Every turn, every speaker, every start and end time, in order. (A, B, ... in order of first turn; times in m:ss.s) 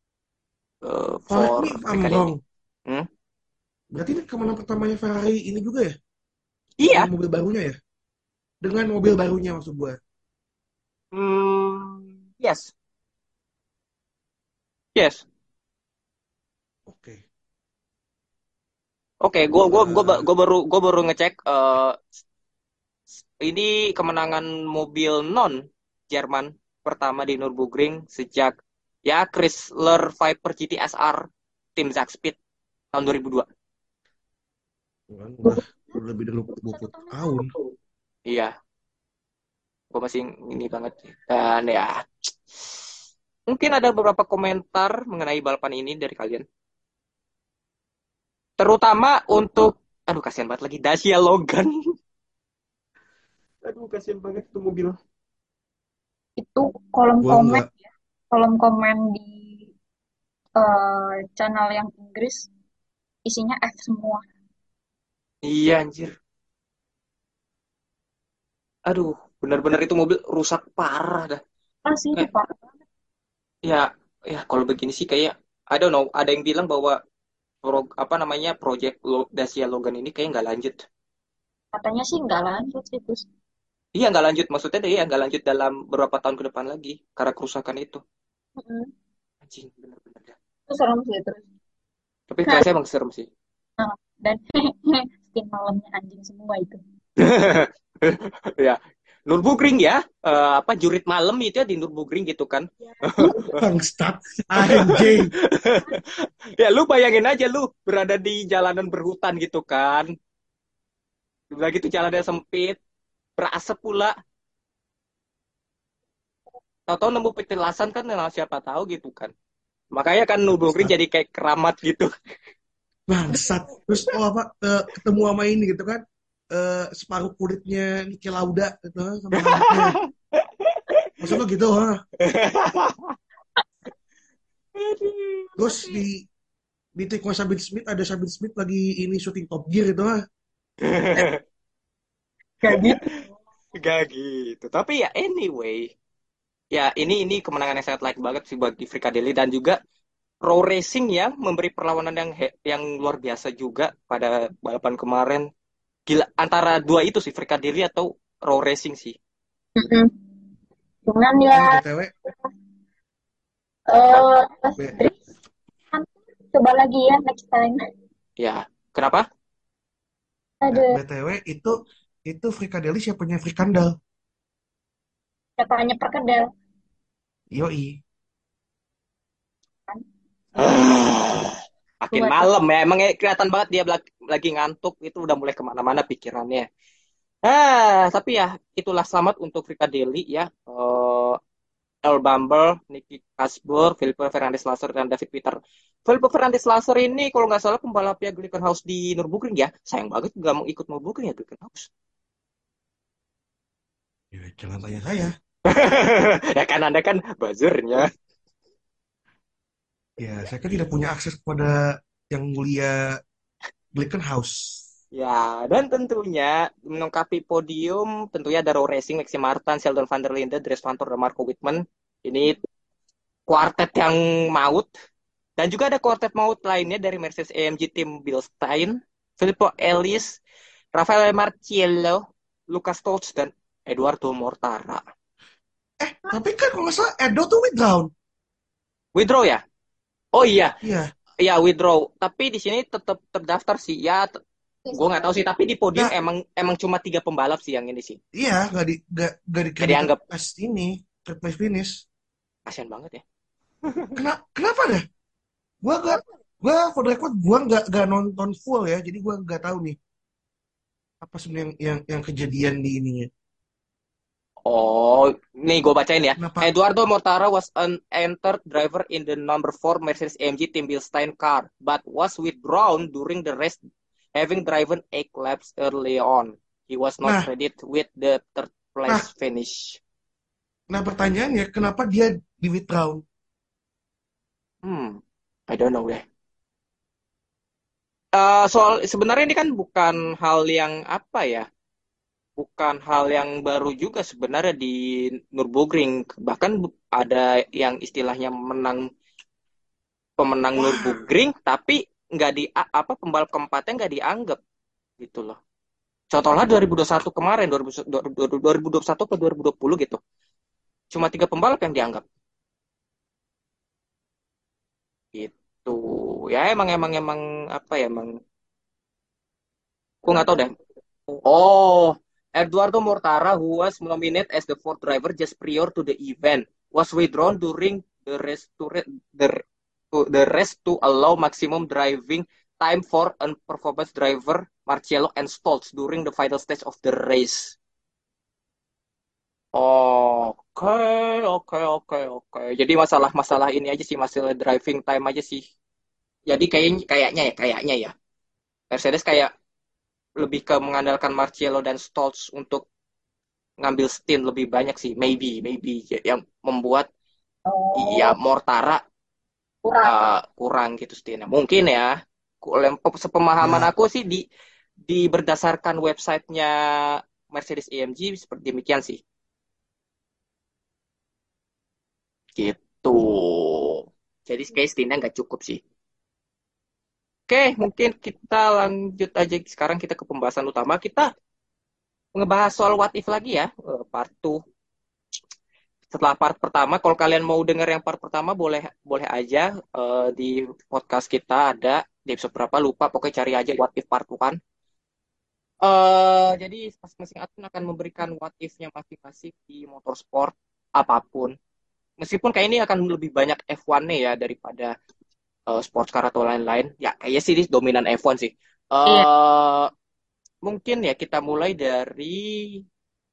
0:00.8-0:02.2 A
0:01.3-0:02.4 B
0:03.9-0:05.9 B
0:06.8-0:07.1 A
0:06.9-0:07.8 B
0:08.6-0:10.0 B
0:11.1-0:12.7 A
0:15.0-0:15.2 A
0:16.9-0:17.2 B
0:19.2-0:22.1 A
0:19.7-0:20.2 B
0:23.4-0:32.4 A
0:32.9-0:33.5 A
0:35.1-0:37.5 B
0:35.4-0:37.7 C
0:38.3-0:38.5 A
0:39.9-0:42.8 A
0:43.5-0:46.4 A
0:48.6-0:51.7 A
0:53.6-0:55.0 A
0:56.4-0:57.8 C
0:57.2-0:57.7 B
0:58.3-0:59.7 C
1:00.6-1:02.5 C
1:03.2-1:04.2 C
1:05.4-1:06.1 A
1:08.9-1:11.4 A
1:11.9-1:12.7 C
1:13.6-1:17.0 A
1:17.6-1:20.8 A
1:21.7-1:23.2 C
1:24.0-1:28.0 A
1:28.6-1:28.9 C
1:29.4-1:30.4 A
1:30.7-1:31.4 C
1:32.3-1:33.3 A
1:33.8-1:36.8 C
1:37.2-1:43.5 A
1:42.8-1:43.5 C
1:43.6-1:45.3 B
1:44.6-1:50.1 A
1:51.5-1:52.8 A
1:53.4-1:54.1 A
1:56.9-1:59.3 A
1:59.9-2:02.1 A
2:03.1-2:10.0 B
2:09.4-2:11.1 A
2:11.2-2:12.0 B
2:12.2-2:13.2 A
2:14.8-2:15.6 A
2:15.6-2:16.3 B
2:17.0-2:20.2 B
2:20.8-2:21.4 A
2:22.6-2:23.2 C
2:22.7-2:23.2 A
2:23.8-2:25.9 A
2:26.7-2:29.8 A
2:30.4-2:35.5 A
2:36.1-2:39.2 A
2:39.8-2:40.1 C
2:41.1-2:42.5 C
2:41.5-2:42.1 B
2:43.9-2:45.1 C
2:45.9-2:47.8 C
2:48.4-2:49.2 A
2:50.6-2:51.0 C
2:50.7-2:51.7 B
2:52.3-2:53.9 B
2:55.6-2:56.5 C
2:57.5-2:58.0 B
3:00.6-3:06.7 A
3:02.1-3:02.5 C
3:07.4-3:11.4 A
3:12.0-3:21.9 A
3:24.3-3:25.3 B
3:25.7-3:28.1 A
3:30.2-3:31.8 B
3:32.3-3:33.2 B
3:33.9-3:34.8 B
3:35.1-3:42.6 A
3:43.5-3:44.9 A
3:45.6-3:50.4 A
3:50.9-3:55.0 A
3:56.0-3:58.1 B
3:59.1-3:59.6 A
4:00.3-4:00.7 A
4:00.8-4:01.1 B
4:01.4-4:04.4 A
4:04.8-4:05.3 C
4:04.9-4:08.2 A
4:08.4-4:12.0 B
4:09.8-4:10.2 A
4:12.7-4:13.2 A
4:13.9-4:14.1 A
4:14.2-4:15.0 B
4:15.8-4:20.0 B
4:21.2-4:23.3 B
4:24.6-4:33.8 A
4:26.4-4:26.7 B
4:34.4-4:40.0 A
4:40.9-4:43.2 B
4:44.8-4:45.2 A
4:45.7-4:46.2 A
4:48.4-4:51.6 A
4:52.6-4:59.0 A
5:00.4-5:04.6 A
5:00.8-5:01.2 B
5:05.2-5:05.6 A
5:06.3-5:10.2 A
5:11.1-5:12.2 A
5:15.4-5:18.3 A
5:20.2-5:20.7 A
5:21.3-5:37.8 A
5:39.7-5:45.6 A
5:46.5-5:48.1 A
5:48.9-5:49.5 A
5:50.4-5:52.8 A
5:53.8-5:57.1 A
5:57.6-5:58.3 C
5:57.9-5:59.0 A
5:59.8-6:00.2 C
6:00.0-6:04.4 A
6:03.6-6:03.9 B
6:05.1-6:09.2 A
6:12.6-6:15.8 A
6:17.5-6:21.3 A
6:22.4-6:24.6 A
6:26.1-6:34.6 A
6:35.8-6:41.6 A
6:42.2-6:44.9 A
6:45.7-6:49.9 A
6:50.6-6:52.8 A